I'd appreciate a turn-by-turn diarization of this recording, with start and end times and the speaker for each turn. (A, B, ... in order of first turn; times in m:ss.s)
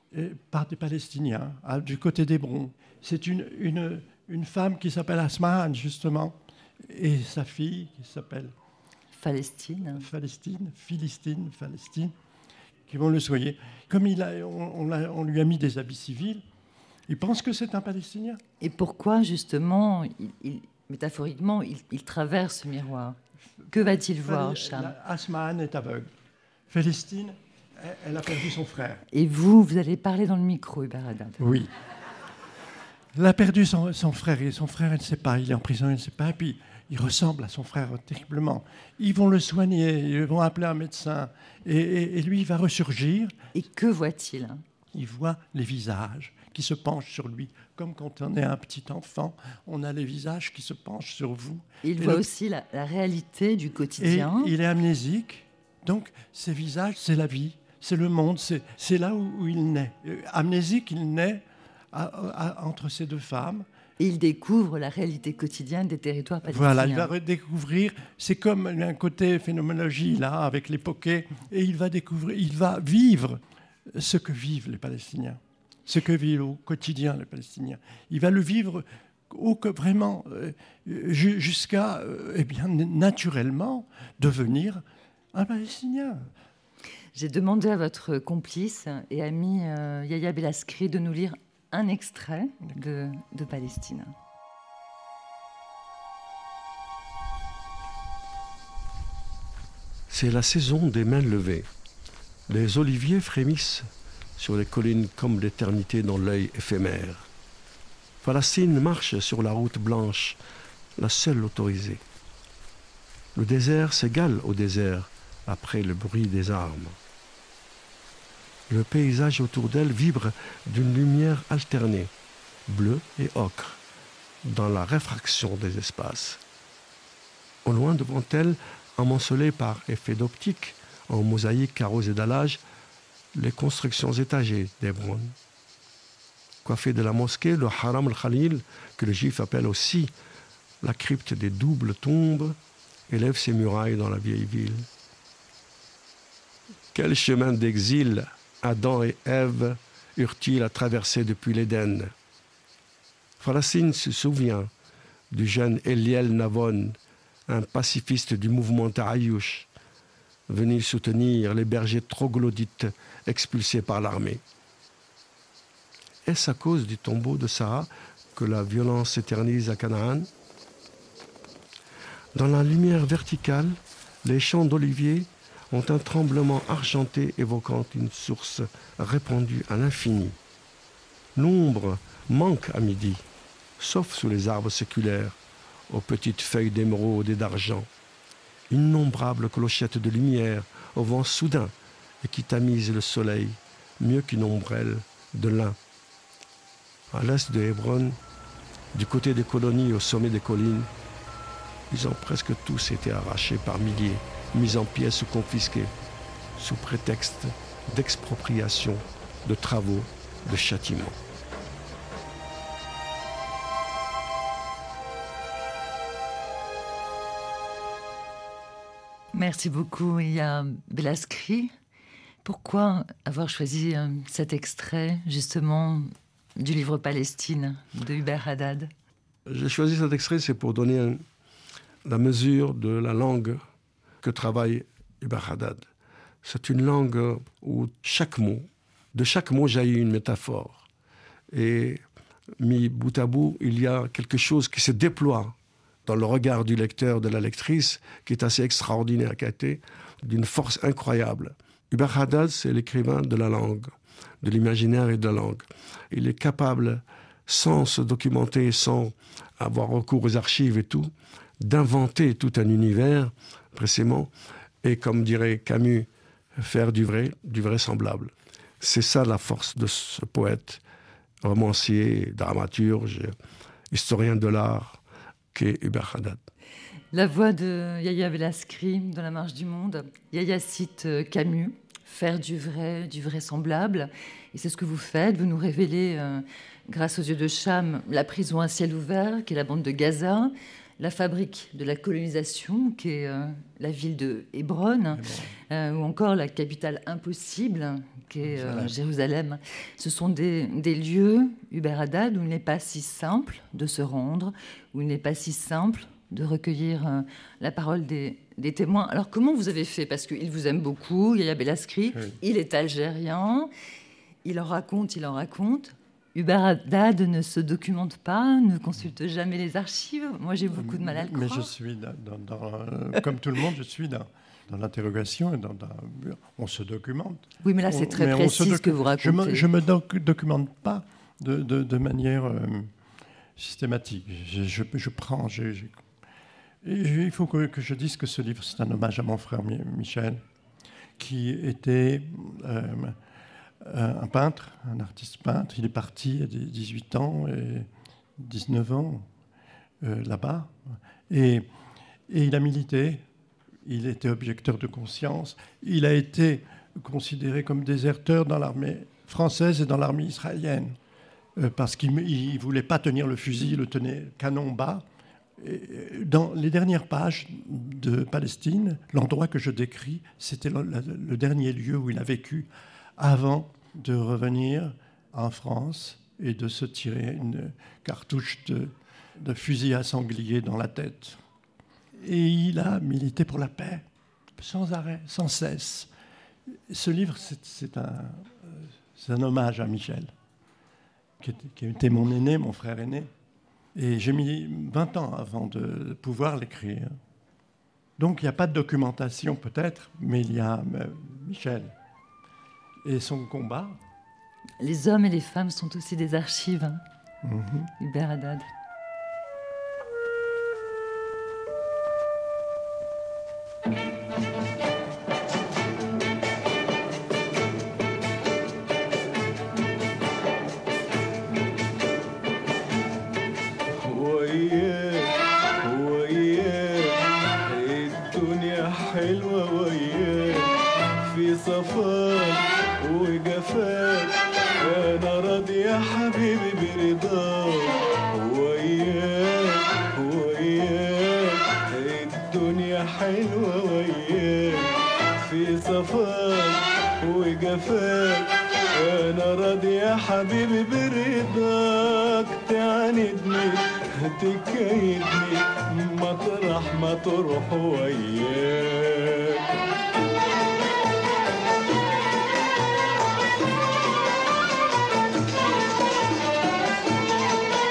0:00.1-0:08.5 A
0:09.1-0:10.1 B
0:10.0-0:12.1 A
0:12.9-0:16.4 A
0:17.1-0:18.4 A
0:18.6-0:23.2 B
0:23.7-0:24.9 B
0:23.8-0:26.1 A
0:26.7-0:29.0 A
0:29.1-0:31.4 B
0:31.4-0:31.7 A
0:33.2-0:43.4 A
0:43.5-0:44.6 B
0:44.9-0:52.2 A
0:51.8-0:54.5 B
0:54.0-1:03.7 A
1:04.0-1:07.1 B
1:06.5-1:13.4 A
1:13.9-1:26.3 A
1:27.1-1:34.1 B
1:40.1-1:41.7 C
1:42.5-1:47.3 C
1:48.2-1:50.4 C
1:51.0-1:52.0 C
1:53.4-1:57.0 C
1:58.7-2:02.1 C
2:02.7-2:03.8 C
2:04.4-2:06.4 C
2:07.6-2:12.6 C
2:13.3-2:15.3 C
2:16.6-2:20.1 C
2:20.8-2:22.6 C
2:23.1-2:24.9 C
2:26.9-2:32.1 C
2:33.4-2:34.7 C
2:35.3-2:37.0 C
2:37.5-2:39.7 C
2:40.5-2:44.4 C
2:46.3-2:50.3 C
2:52.4-3:00.4 C
3:01.4-3:03.2 C
3:03.8-3:05.4 C
3:05.9-3:07.9 C
3:08.7-3:15.8 C
3:17.1-3:18.2 C
3:18.9-3:20.9 C
3:21.9-3:25.9 C
3:26.6-3:31.2 C
3:39.3-3:41.7 B
3:42.4-3:48.9 B
3:49.5-3:51.2 C
3:52.0-3:53.6 C
3:54.2-3:55.8 C
3:56.4-4:00.9 C
4:01.5-4:02.0 C
4:02.6-4:05.5 C
4:06.1-4:24.3 C
4:24.8-4:30.8 C
4:31.4-4:33.3 C
4:33.9-4:35.0 C
4:35.5-4:36.4 C
4:37.1-5:13.7 B
4:55.1-4:55.5 A
4:58.4-4:58.9 A
5:12.1-5:12.4 A
5:14.4-5:21.7 B
5:20.7-5:32.9 A
5:27.6-5:29.7 B
5:33.6-5:36.0 A
5:36.8-5:40.4 A
5:41.2-5:43.2 A
5:43.8-5:49.3 A
5:50.0-5:50.8 A
5:51.3-5:51.7 A
5:52.3-5:53.2 A
5:53.8-6:01.0 A
6:01.6-6:05.1 A
6:05.6-6:21.4 A
6:22.2-6:24.0 A
6:24.6-6:26.1 A
6:26.9-6:30.3 A
6:31.4-6:33.3 A
6:34.0-6:37.1 A
6:38.2-6:41.9 A
6:43.0-6:44.0 A
6:44.8-6:47.0 B
6:47.4-6:47.9 A
6:48.0-6:48.7 B
7:04.0-7:24.9 D
7:25.4-7:39.6 D